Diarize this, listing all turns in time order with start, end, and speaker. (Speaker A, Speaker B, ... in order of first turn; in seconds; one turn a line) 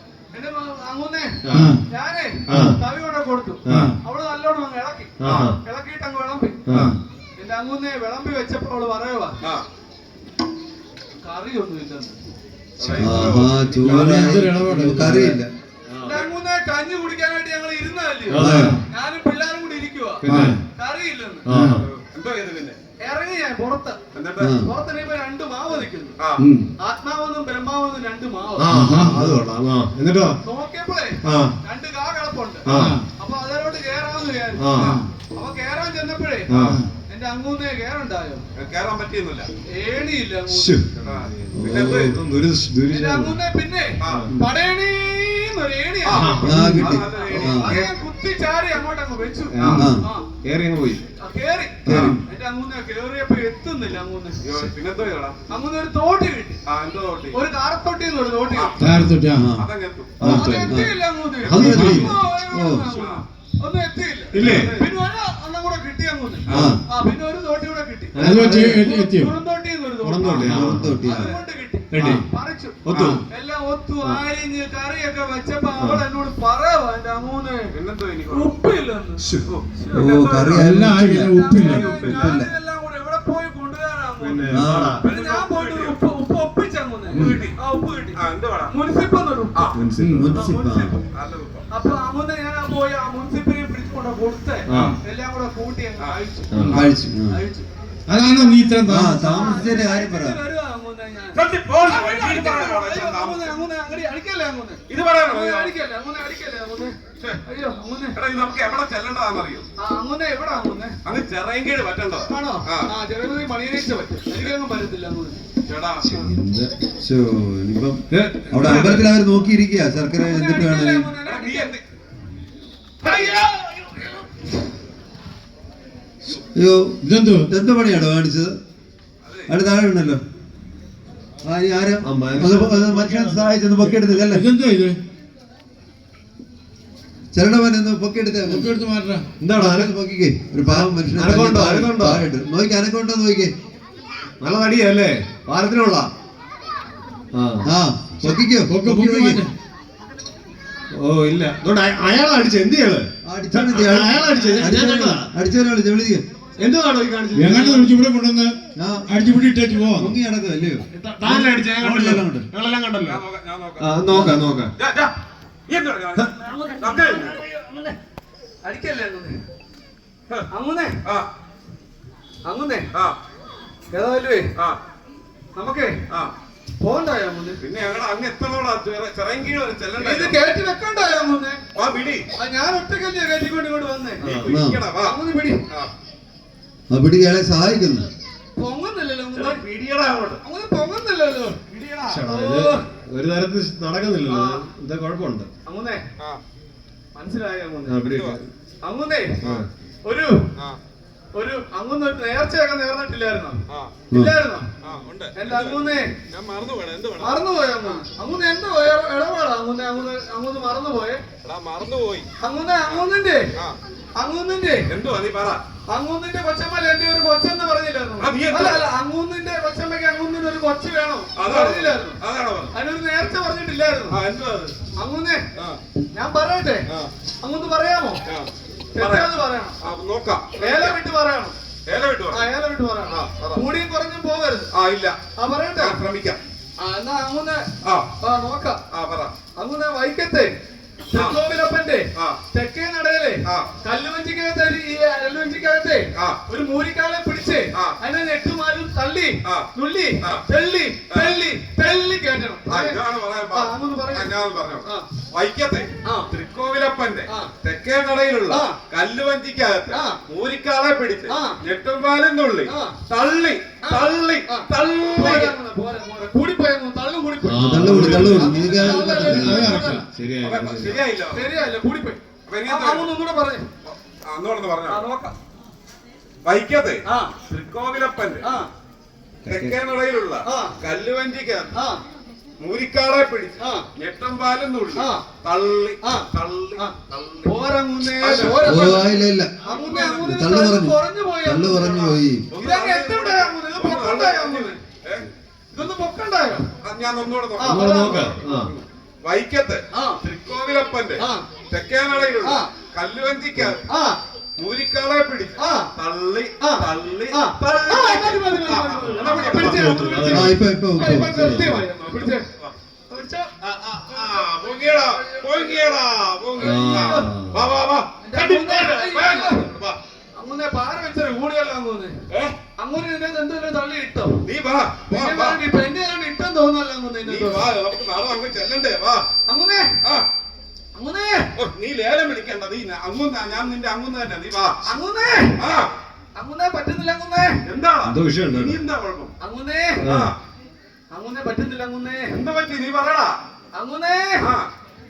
Speaker A: 0.3-6.7
Speaker B: 1.4-1.8
Speaker C: 1.5-1.8
Speaker B: 2.5-2.8
Speaker B: 3.7-4.0
Speaker C: 3.7-4.0
Speaker B: 5.2-5.6
Speaker D: 5.2-5.5
Speaker C: 6.7-7.0
Speaker A: 7.4-9.4
Speaker A: 11.2-12.2
Speaker D: 12.8-14.3
Speaker E: 13.0-15.5
Speaker C: 13.8-15.4
Speaker B: 15.9-16.1
Speaker A: 16.0-21.5
Speaker D: 16.1-16.3
Speaker B: 18.3-18.8
Speaker E: 18.4-18.8
Speaker C: 18.4-18.8
Speaker B: 20.2-20.6
Speaker C: 20.3-20.6
Speaker B: 21.5-21.9
Speaker C: 21.5-21.8
Speaker D: 21.8-22.8
Speaker A: 23.0-24.0
Speaker D: 24.1-24.5
Speaker E: 24.4-24.7
Speaker A: 24.5-26.2
Speaker C: 26.4-26.7
Speaker A: 26.8-28.8
Speaker B: 28.6-30.4
Speaker C: 28.7-29.4
Speaker A: 30.4-34.7
Speaker B: 31.2-31.5
Speaker B: 32.7-33.0
Speaker C: 32.7-33.0
Speaker B: 34.6-35.0
Speaker C: 34.8-35.1
Speaker A: 35.4-36.6
Speaker B: 36.5-36.8
Speaker C: 36.5-36.9
Speaker A: 37.1-38.4
Speaker D: 38.6-39.5
Speaker A: 39.7-40.8
Speaker B: 40.5-43.4
Speaker D: 41.1-42.1
Speaker E: 41.5-42.1
Speaker A: 42.9-50.3
Speaker D: 44.0-44.3
Speaker B: 44.1-44.3
Speaker D: 46.0-47.9
Speaker B: 46.1-46.9
Speaker E: 46.4-47.8
Speaker B: 49.5-49.9
Speaker C: 49.6-49.9
Speaker E: 49.7-50.0
Speaker B: 50.4-51.0
Speaker A: 51.2-54.4
Speaker B: 51.9-52.2
Speaker D: 51.9-52.2
Speaker D: 54.4-55.4
Speaker A: 55.5-56.6
Speaker D: 56.7-57.4
Speaker A: 57.3-58.7
Speaker C: 58.8-59.5
Speaker B: 58.8-59.1
Speaker E: 59.2-59.7
Speaker D: 59.6-60.2
Speaker B: 60.2-62.1
Speaker E: 60.2-63.0
Speaker A: 60.2-77.7
Speaker C: 61.6-62.1
Speaker D: 62.9-63.2
Speaker B: 64.3-64.8
Speaker D: 64.4-64.9
Speaker D: 66.5-66.8
Speaker E: 66.5-66.8
Speaker B: 66.5-66.8
Speaker B: 68.2-68.9
Speaker C: 68.2-69.4
Speaker B: 70.0-71.0
Speaker D: 70.2-70.5
Speaker E: 70.5-71.3
Speaker B: 71.9-72.2
Speaker B: 72.8-73.2
Speaker C: 72.9-73.2
Speaker B: 75.8-76.0
Speaker D: 77.7-78.5
Speaker A: 78.3-79.3
Speaker B: 79.2-79.5
Speaker D: 79.5-80.7
Speaker E: 79.9-81.3
Speaker C: 80.5-82.1
Speaker A: 81.2-89.8
Speaker B: 81.6-82.4
Speaker E: 82.0-82.5
Speaker B: 84.2-85.0
Speaker E: 84.5-85.0
Speaker D: 85.0-86.0
Speaker C: 87.1-87.4
Speaker D: 87.1-87.6
Speaker D: 88.2-88.7
Speaker B: 89.7-90.3
Speaker C: 90.0-90.3
Speaker E: 90.0-91.0
Speaker A: 90.3-91.0
Speaker D: 91.1-91.7
Speaker A: 91.7-97.7
Speaker B: 94.7-95.0
Speaker C: 94.7-95.0
Speaker B: 96.5-96.9
Speaker E: 96.7-97.4
Speaker C: 98.1-99.5
Speaker A: 98.3-107.0
Speaker E: 98.9-100.4
Speaker D: 101.3-103.5
Speaker D: 104.9-105.7
Speaker A: 107.5-108.2
Speaker D: 108.2-109.7
Speaker A: 109.8-111.0
Speaker D: 111.0-112.9
Speaker A: 112.3-115.4
Speaker D: 115.7-116.0
Speaker B: 116.0-116.7
Speaker E: 116.0-121.1
Speaker B: 118.1-119.1
Speaker D: 118.6-119.1
Speaker A: 120.2-121.8
Speaker D: 121.2-121.8
Speaker D: 123.0-123.4
Speaker A: 123.0-124.4
Speaker E: 126.5-128.6
Speaker C: 127.0-127.5
Speaker D: 129.2-129.5
Speaker E: 129.5-130.2
Speaker E: 131.4-134.4
Speaker B: 132.0-133.4
Speaker C: 134.3-135.0
Speaker E: 137.3-138.7
Speaker C: 138.5-139.2
Speaker B: 139.4-139.9
Speaker E: 139.5-143.5
Speaker B: 140.7-142.2
Speaker B: 144.4-146.1
Speaker B: 147.3-147.7
Speaker E: 147.7-149.4
Speaker C: 148.6-149.5
Speaker B: 151.0-155.3
Speaker E: 153.3-156.2
Speaker B: 156.6-157.9
Speaker C: 157.3-158.5
Speaker E: 158.8-159.1
Speaker C: 159.1-160.1
Speaker E: 160.0-162.5
Speaker B: 161.0-163.2
Speaker D: 163.1-164.0
Speaker B: 163.8-164.7
Speaker D: 164.8-165.1
Speaker D: 165.7-167.4
Speaker A: 166.4-168.0
Speaker A: 168.6-169.4
Speaker A: 170.5-170.9
Speaker A: 172.5-172.9
Speaker A: 173.9-174.5
Speaker A: 175.6-175.9
Speaker A: 176.8-177.6
Speaker D: 177.6-180.4
Speaker A: 180.0-181.6
Speaker D: 181.8-182.2
Speaker A: 182.4-184.2
Speaker B: 184.2-184.5
Speaker D: 184.2-185.2
Speaker E: 184.5-184.8
Speaker A: 185.0-185.6
Speaker E: 186.9-188.1
Speaker A: 188.6-189.6
Speaker D: 189.3-190.4
Speaker A: 190.4-191.6
Speaker D: 191.7-192.2
Speaker B: 192.1-195.5
Speaker A: 192.3-192.8
Speaker A: 194.3-194.7
Speaker A: 195.7-196.0
Speaker A: 197.2-198.0
Speaker B: 197.9-198.5
Speaker D: 198.1-198.4
Speaker A: 198.8-199.4
Speaker B: 199.4-199.7
Speaker A: 200.1-200.4
Speaker A: 201.3-203.6
Speaker A: 204.1-204.7
Speaker D: 204.8-208.0
Speaker A: 205.4-206.1
Speaker A: 207.2-211.2
Speaker D: 211.4-212.3
Speaker A: 212.4-213.5
Speaker A: 214.2-214.9
Speaker D: 214.9-215.6
Speaker A: 215.9-222.2
Speaker D: 218.2-218.9
Speaker D: 221.4-222.7
Speaker A: 222.7-224.2
Speaker D: 224.1-224.7
Speaker A: 225.0-225.5
Speaker A: 226.1-226.9
Speaker A: 227.4-228.2
Speaker D: 228.3-229.3
Speaker A: 228.9-229.8
Speaker D: 229.8-231.0
Speaker A: 230.6-231.6
Speaker D: 231.9-232.4
Speaker A: 232.3-234.7
Speaker D: 233.1-233.6
Speaker D: 234.7-235.2
Speaker A: 235.4-236.0
Speaker D: 235.8-236.4
Speaker A: 236.8-237.7
Speaker A: 238.2-238.8
Speaker D: 238.9-239.3
Speaker A: 239.6-240.5
Speaker A: 241.1-253.0
Speaker D: 252.7-265.5
Speaker A: 253.5-254.3
Speaker A: 256.1-256.3
Speaker A: 258.5-258.8
Speaker A: 259.9-260.2
Speaker A: 261.3-261.6
Speaker A: 262.7-262.9
Speaker A: 263.9-270.1
Speaker B: 267.4-271.0
Speaker E: 267.6-269.7
Speaker C: 269.3-270.1
Speaker D: 270.4-271.4
Speaker A: 271.3-273.6
Speaker D: 272.5-273.1
Speaker D: 273.9-275.0
Speaker A: 274.9-275.3
Speaker D: 276.4-278.4
Speaker A: 277.1-277.3
Speaker B: 279.4-279.8
Speaker D: 279.5-281.7
Speaker A: 280.5-280.8
Speaker D: 282.6-287.7
Speaker A: 283.6-283.9
Speaker A: 285.0-285.2
Speaker A: 286.0-286.9
Speaker A: 287.5-294.8
Speaker D: 288.2-289.1
Speaker E: 288.6-292.4
Speaker D: 289.7-290.3
Speaker D: 292.5-295.3
Speaker A: 295.7-296.7
Speaker D: 296.8-303.8
Speaker A: 297.6-298.4
Speaker B: 297.7-298.7
Speaker A: 299.9-300.2
Speaker A: 301.2-301.4
Speaker A: 303.9-304.2
Speaker D: 304.6-310.3
Speaker A: 305.6-305.9
Speaker A: 306.6-312.4
Speaker B: 309.2-310.6
Speaker E: 310.3-311.8
Speaker D: 311.0-312.7
Speaker B: 311.1-311.7
Speaker A: 313.1-313.5
Speaker D: 313.6-320.0
Speaker A: 314.1-316.0
Speaker A: 316.6-317.3
Speaker B: 316.6-317.7
Speaker A: 318.2-319.7
Speaker A: 320.4-322.2
Speaker A: 322.8-324.4
Speaker D: 324.4-325.6
Speaker A: 325.1-327.6
Speaker D: 327.2-329.2
Speaker A: 329.5-329.9
Speaker A: 330.9-331.5
Speaker D: 331.6-334.8
Speaker A: 334.9-335.6
Speaker D: 335.6-335.9
Speaker A: 336.4-337.6
Speaker D: 337.6-339.3
Speaker B: 338.0-338.8
Speaker A: 339.4-340.0
Speaker B: 340.0-340.3
Speaker D: 340.0-340.3
Speaker A: 341.1-342.3
Speaker D: 342.3-343.4
Speaker A: 343.8-344.4
Speaker D: 344.4-344.7